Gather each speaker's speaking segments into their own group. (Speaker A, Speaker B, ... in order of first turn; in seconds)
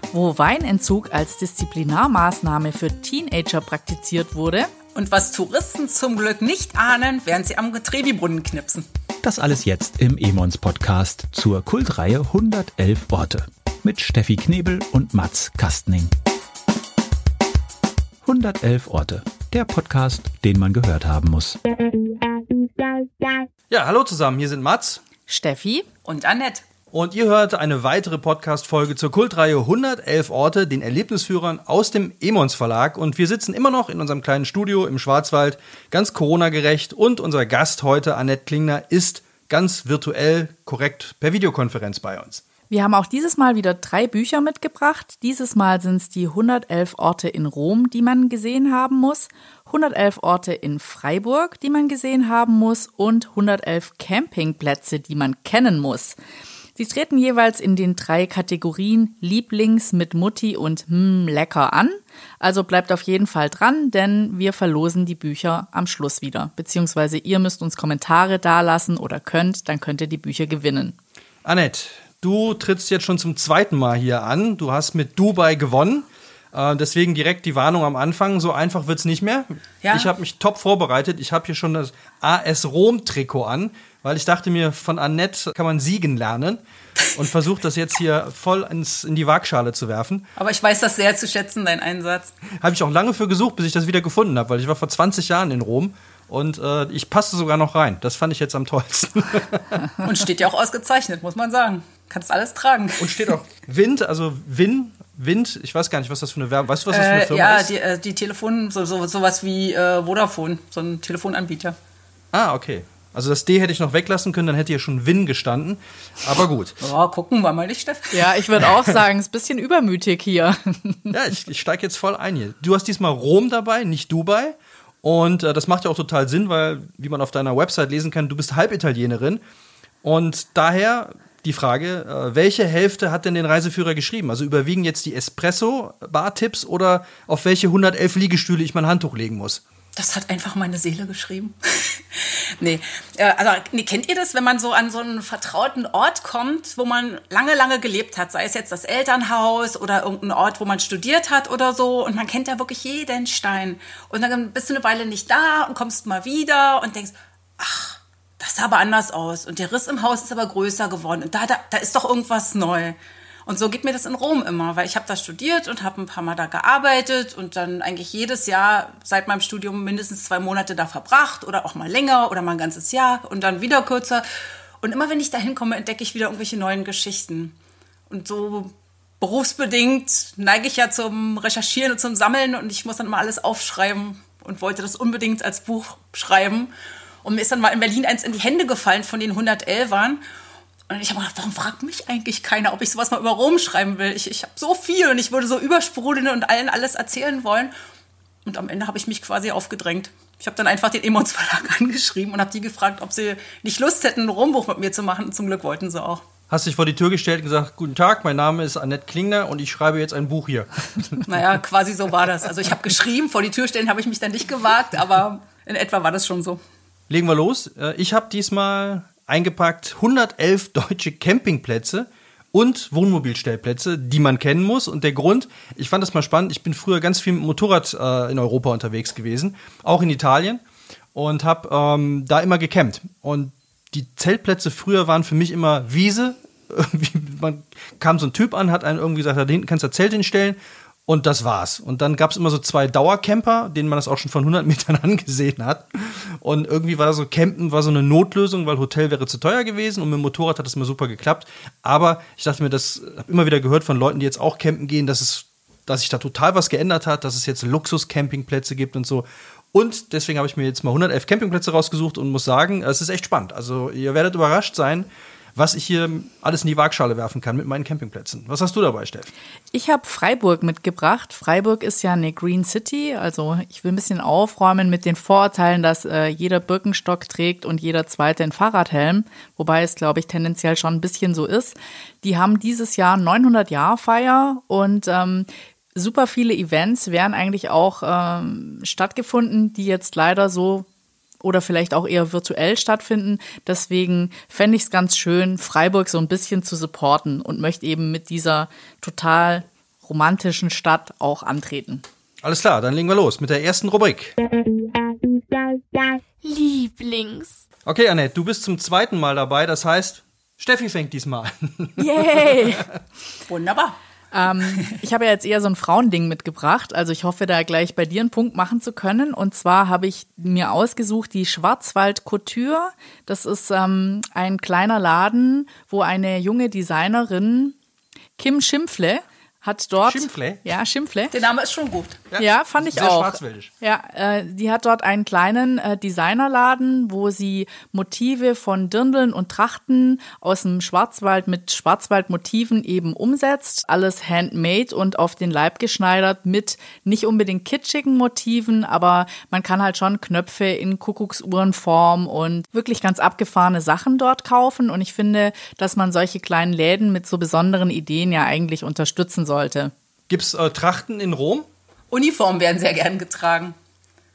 Speaker A: 0.1-4.7, 25.3-25.9, 42.7-56.2, 56.8-71.0, 118.1-121.1, 269.7-290.9, 291.4-302.0, 312.3-312.6, 314.3-327.8, 328.4-331.3, 332.4-359.9
Speaker B: 4.9-8.8, 26.0-26.6, 79.8-80.1, 90.3-92.3, 100.0-103.3, 106.9-111.8, 116.8-118.4, 139.9-174.2, 174.8-177.6, 178.1-186.7, 187.2-190.2, 190.9-197.7, 198.4-206.2, 211.2-216.6, 313.5-313.9, 331.3-332.2, 362.1-363.7
Speaker C: 9.2-16.1, 18.2-21.6
Speaker D: 23.7-25.0, 26.9-42.4, 71.4-86.6, 87.1-90.3, 92.5-99.9, 103.0-107.7, 112.3-116.8, 121.1-129.4, 130.0-139.6, 206.5-211.4, 217.1-230.6, 231.1-269.3, 302.4-304.4, 307.9-312.9, 330.1-330.6, 332.3-333.7, 360.3-361.7
Speaker E: 306.4-307.6, 312.1-312.8